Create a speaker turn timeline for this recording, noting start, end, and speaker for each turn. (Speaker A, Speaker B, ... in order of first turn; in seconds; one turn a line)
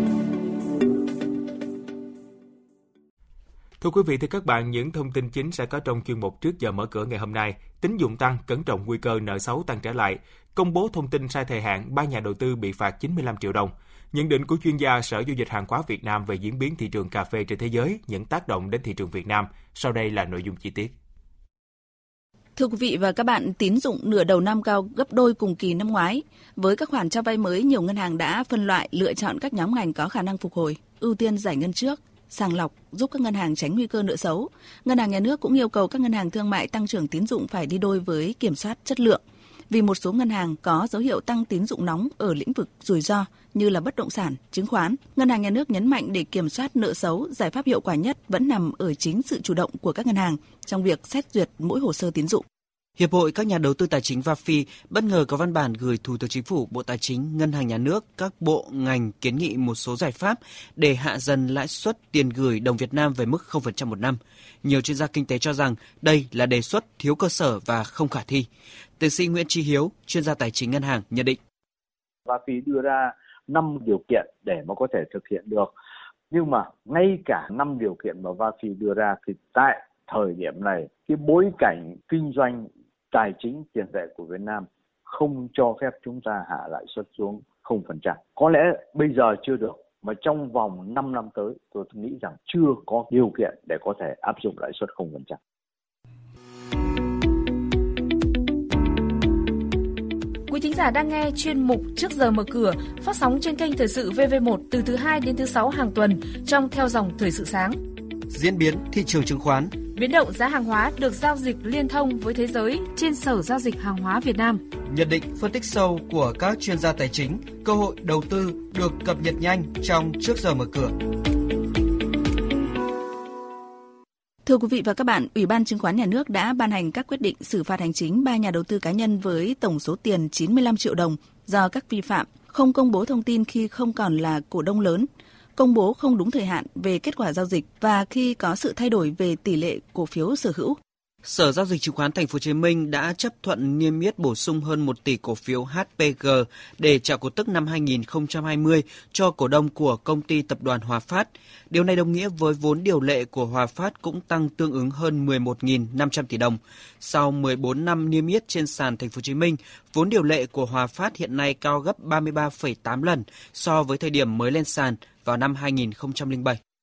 Speaker A: 3.8-20.9
Speaker B: 22.6-52.5
Speaker C: 53.0-68.5
Speaker C: 69.0-71.4
Speaker D: 72.3-75.7
Speaker D: 76.3-95.4
Speaker E: 100.5-107.8
Speaker C: 108.3-109.8
Speaker E: 110.0-114.6
Speaker C: 114.9-120.9
Speaker B: 124.5-140.8
Speaker C: 141.2-166.6